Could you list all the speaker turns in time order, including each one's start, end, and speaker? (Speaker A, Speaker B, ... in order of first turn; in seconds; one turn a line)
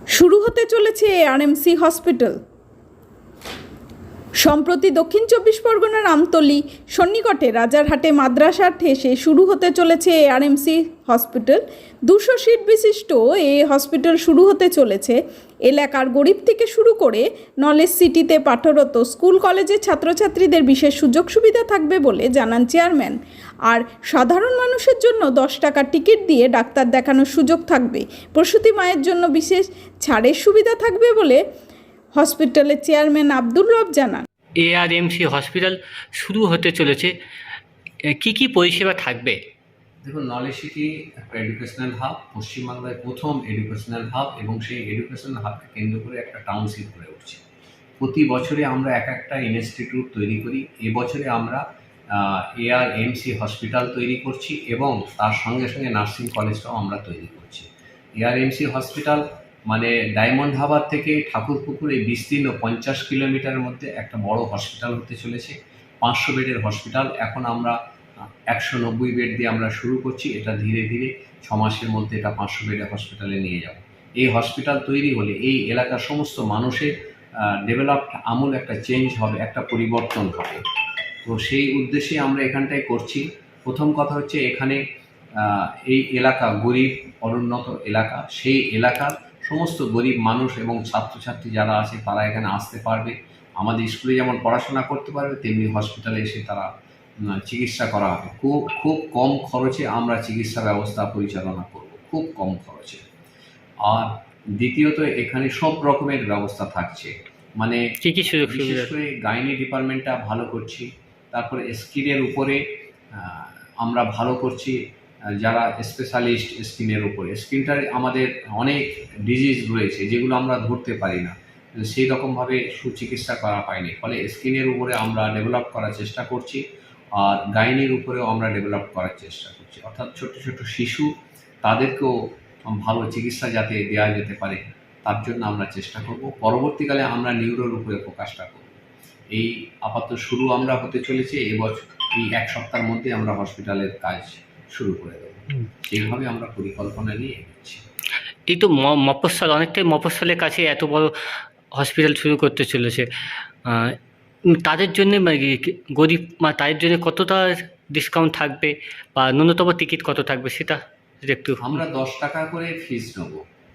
Speaker A: 0.1-2.4
Speaker A: 4.4-23.2
Speaker A: 23.7-31.4
Speaker A: 32.1-34.2
Speaker B: 34.6-37.1
Speaker B: 38.2-39.4
Speaker C: 40.0-47.4
Speaker C: 48.0-51.6
Speaker C: 52.1-67.8
Speaker C: 68.5-76.9
Speaker C: 77.5-80.6
Speaker C: 81.2-84.8
Speaker C: 85.4-96.7
Speaker C: 97.3-103.0
Speaker C: 103.8-107.8
Speaker B: 108.0-108.9
Speaker C: 108.4-112.6
Speaker C: 113.1-114.8
Speaker C: 115.3-126.6
Speaker C: 127.2-131.1
Speaker C: 131.6-132.1
Speaker C: 132.7-138.7
Speaker C: 139.3-147.8
Speaker B: 148.5-151.1
Speaker B: 151.8-153.1
Speaker B: 153.7-153.9
Speaker B: 154.6-161.8
Speaker C: 161.6-163.4